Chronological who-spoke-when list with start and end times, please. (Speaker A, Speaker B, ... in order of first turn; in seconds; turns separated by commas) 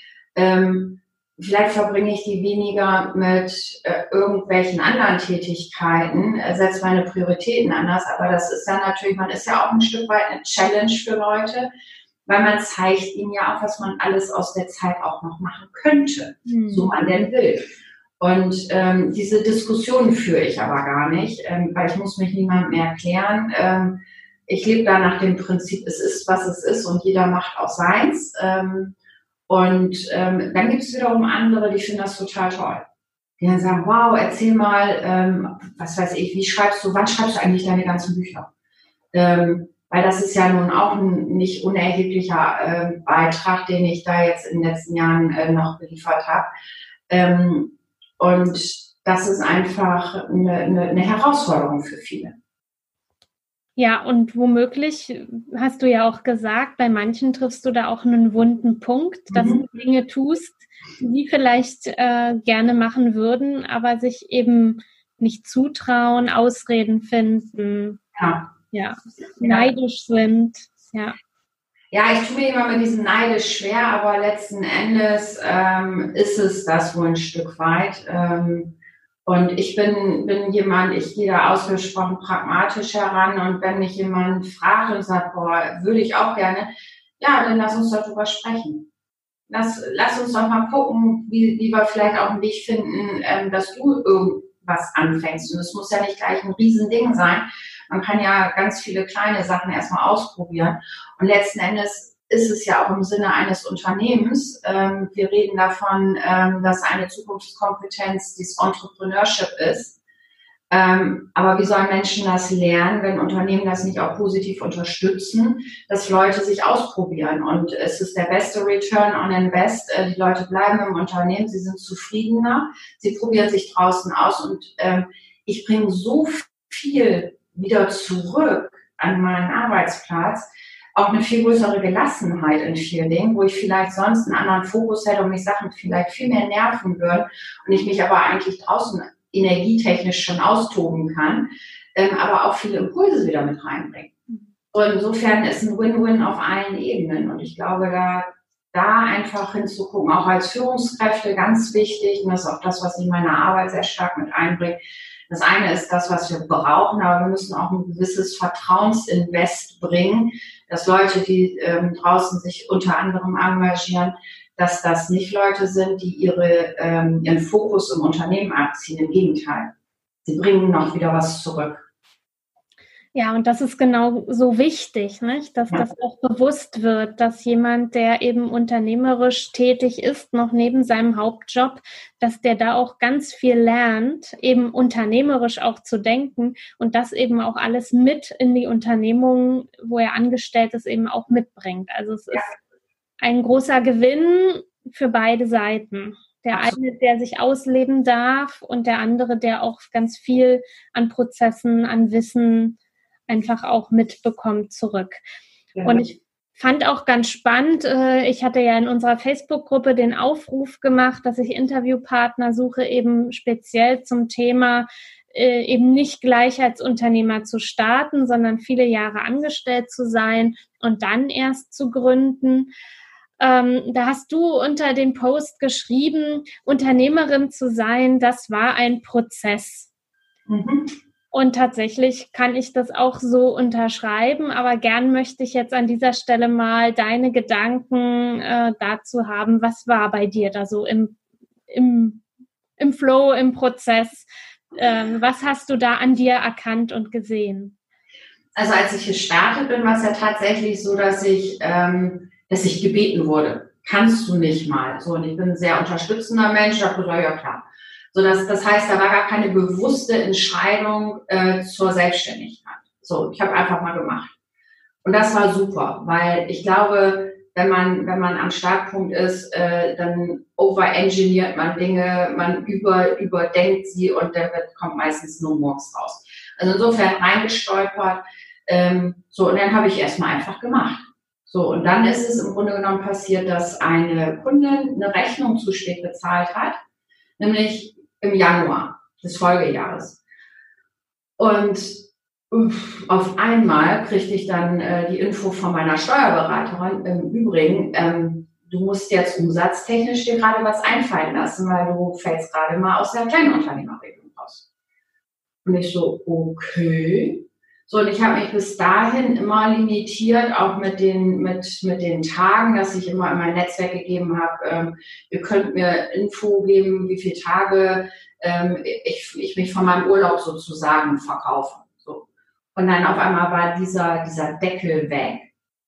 Speaker A: 0.3-11.7, Speaker A: 12.2-17.7, Speaker B: 16.4-16.9, Speaker A: 18.2-28.9, Speaker A: 29.5-32.9, Speaker A: 33.4-38.5, Speaker A: 39.1-46.5, Speaker A: 47.1-52.4, Speaker B: 53.8-68.0, Speaker A: 59.3-59.6, Speaker A: 68.2-68.5, Speaker B: 68.7-71.2, Speaker A: 69.4-69.7, Speaker A: 71.9-88.9, Speaker A: 89.5-110.0, Speaker A: 110.7-144.1, Speaker A: 144.7-169.7, Speaker A: 170.2-171.8, Speaker B: 173.1-192.5, Speaker B: 193.2-202.8, Speaker B: 203.3-205.2, Speaker A: 205.7-206.1, Speaker B: 205.8-222.7, Speaker B: 223.4-229.9, Speaker A: 230.5-230.9, Speaker B: 231.3-241.2, Speaker B: 241.7-242.2, Speaker B: 242.8-247.7, Speaker A: 248.6-264.3, Speaker A: 265.0-286.8, Speaker A: 287.4-290.2, Speaker A: 291.4-304.6, Speaker A: 305.6-325.5